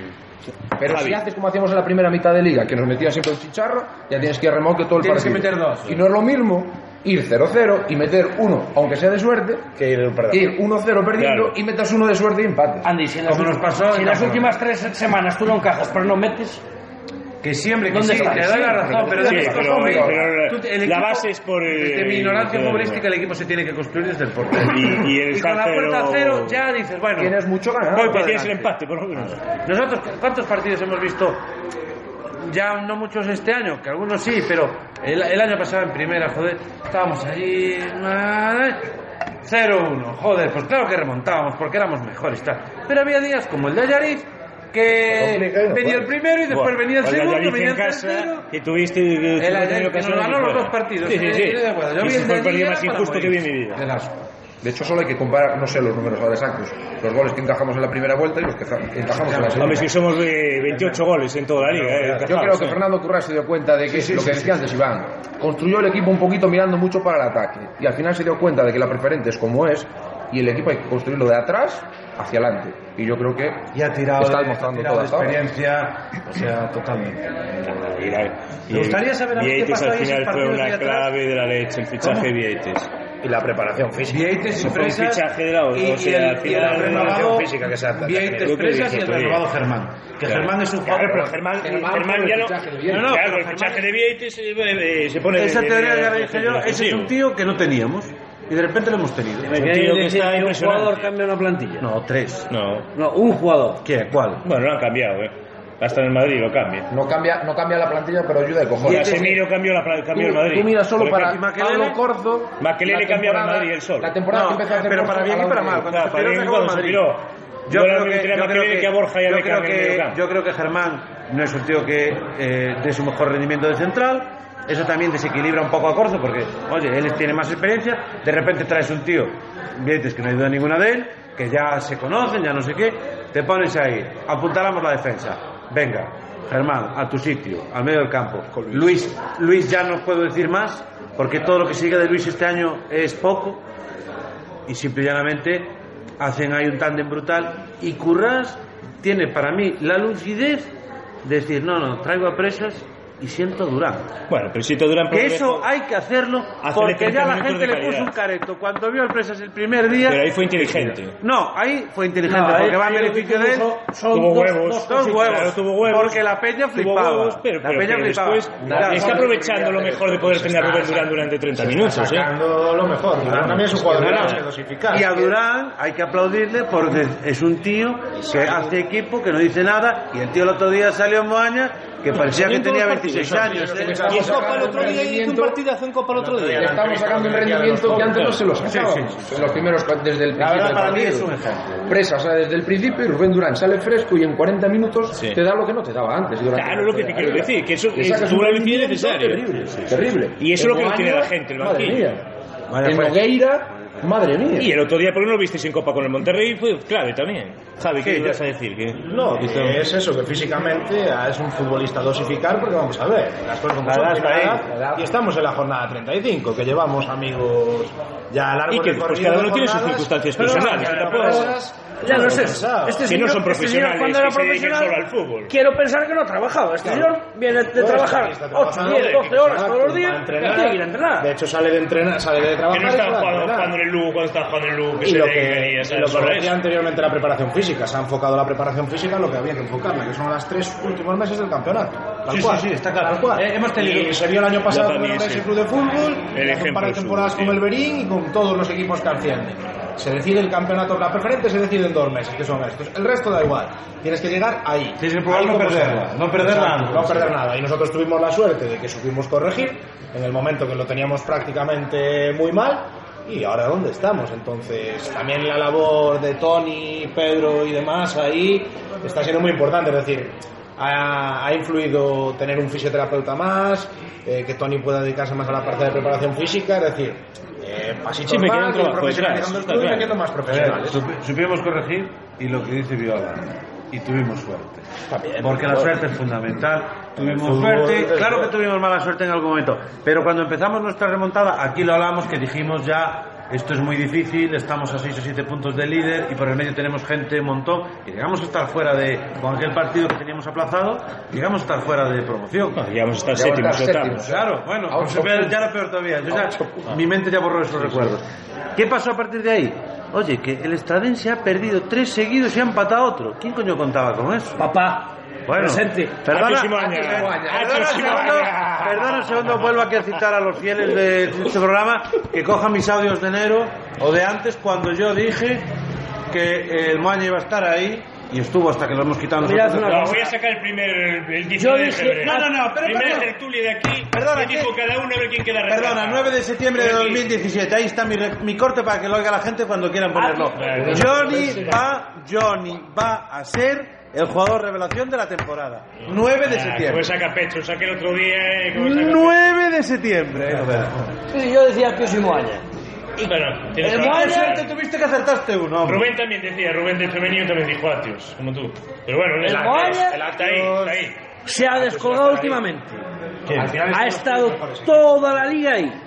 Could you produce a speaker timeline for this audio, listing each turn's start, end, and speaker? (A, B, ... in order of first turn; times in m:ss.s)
0:00.8-0:09.7 A
0:00.8-0:01.2 B
0:05.0-0:06.0 C
0:09.8-0:10.5 D
0:10.3-0:12.9 A
0:11.2-0:11.6 B
0:12.8-0:16.6 E
0:13.3-0:14.6 C
0:17.4-0:27.4 C
0:17.9-0:19.7 E
0:18.1-0:20.3 A
0:19.2-0:23.0 B
0:24.6-0:26.6 B
0:27.2-0:28.3 A
0:27.9-0:28.7 C
0:28.0-0:29.4 B
0:29.5-0:31.4 C
0:32.4-0:48.4 C
0:45.2-0:46.0 D
0:46.5-0:53.8 B
0:49.4-0:54.2 C
0:54.6-0:59.9 A
0:59.1-0:59.9 C
0:59.6-1:02.8 B
1:01.8-1:02.2 C
1:02.2-1:15.4 A
1:03.9-1:04.6 C
1:13.7-1:18.0 C
1:17.6-1:22.9 B
1:18.7-1:21.2 C
1:22.0-1:22.3 C
1:23.2-1:24.7 D
1:24.1-1:31.4 C
1:24.6-1:27.4 B
1:26.5-1:28.7 D
1:28.4-1:29.4 B
1:30.2-1:37.1 B
1:31.6-1:33.2 A
1:32.9-1:33.9 C
1:35.3-1:39.6 C
1:39.5-1:41.9 E
1:39.5-1:41.1 B
1:41.8-1:42.5 C
1:42.5-1:42.9 B
1:43.0-1:43.8 E
1:43.8-1:44.4 C
1:44.4-1:46.9 B
1:46.9-1:49.4 A
1:48.8-1:51.4 B
1:48.8-1:49.4 C
1:50.1-1:55.9 A
1:51.1-1:52.0 C
1:52.6-1:54.1 B
1:54.3-1:57.1 C
1:55.9-2:00.2 B
1:57.7-2:23.6 C
2:18.5-2:19.0 D
2:24.7-2:34.1 C
2:34.3-2:35.7 B
2:35.1-2:43.8 C
2:36.6-2:38.1 B
2:40.0-2:41.1 B
2:42.2-2:45.5 E
2:44.1-2:52.3 B
2:44.9-2:49.3 C
2:48.7-2:50.9 A
2:48.7-2:49.1 D
2:51.6-2:55.3 D
2:53.2-3:04.2 C
2:58.1-2:58.8 D
3:02.2-3:03.1 B
3:03.1-3:05.1 D
3:03.7-3:05.6 A
3:04.1-3:06.7 B
3:06.1-3:08.4 D
3:06.5-3:11.3 A
3:08.1-3:09.6 C
3:10.4-3:12.0 C
3:11.9-3:22.2 A
3:16.5-3:19.5 B
3:20.4-3:22.2 B
3:22.7-3:23.9 C
3:22.8-3:24.8 A
3:24.6-3:29.7 B
3:28.0-3:28.4 C
3:29.0-3:43.1 D
3:33.8-3:34.7 C
3:34.7-3:35.1 A
3:38.7-3:41.5 B
3:40.4-3:41.6 C
3:42.0-3:51.3 E
3:43.0-3:45.5 B
3:46.8-3:53.8 D
3:48.8-3:49.3 B
3:52.7-3:56.6 B
3:55.0-4:41.0 D
4:02.3-4:04.2 C
4:04.7-4:05.5 B
4:06.3-4:07.6 B
4:15.0-4:17.4 C
4:38.2-4:40.1 B
4:40.4-4:44.9 C
4:45.1-4:46.0 D
4:45.4-5:02.8 C
4:47.2-4:48.6 D
5:02.8-5:04.3 B
5:03.3-5:05.6 A
5:04.2-5:08.2 C
5:06.3-5:07.0 A
5:08.8-5:14.7 C
5:14.6-5:16.3 E
5:15.5-5:25.7 C
5:16.3-5:19.7 B
5:16.9-5:18.5 A
5:26.3-5:30.2 C
5:29.4-5:30.3 E
5:29.8-5:37.3 B
5:31.6-5:32.6 E
5:32.2-5:33.3 C
5:34.1-5:34.7 C
5:35.7-5:47.1 C
5:40.1-5:41.8 E
5:40.5-5:41.7 B
5:46.1-5:49.4 B
5:48.8-5:51.1 C
5:51.3-5:52.6 E
5:53.2-5:56.1 C
5:53.2-5:54.8 B
5:53.9-5:54.6 E
5:55.8-6:01.2 B
5:59.4-6:00.2 E
5:59.4-6:02.6 D
6:01.5-6:03.0 E
6:03.5-6:03.9 C
6:03.5-6:05.5 D
6:03.9-6:06.0 E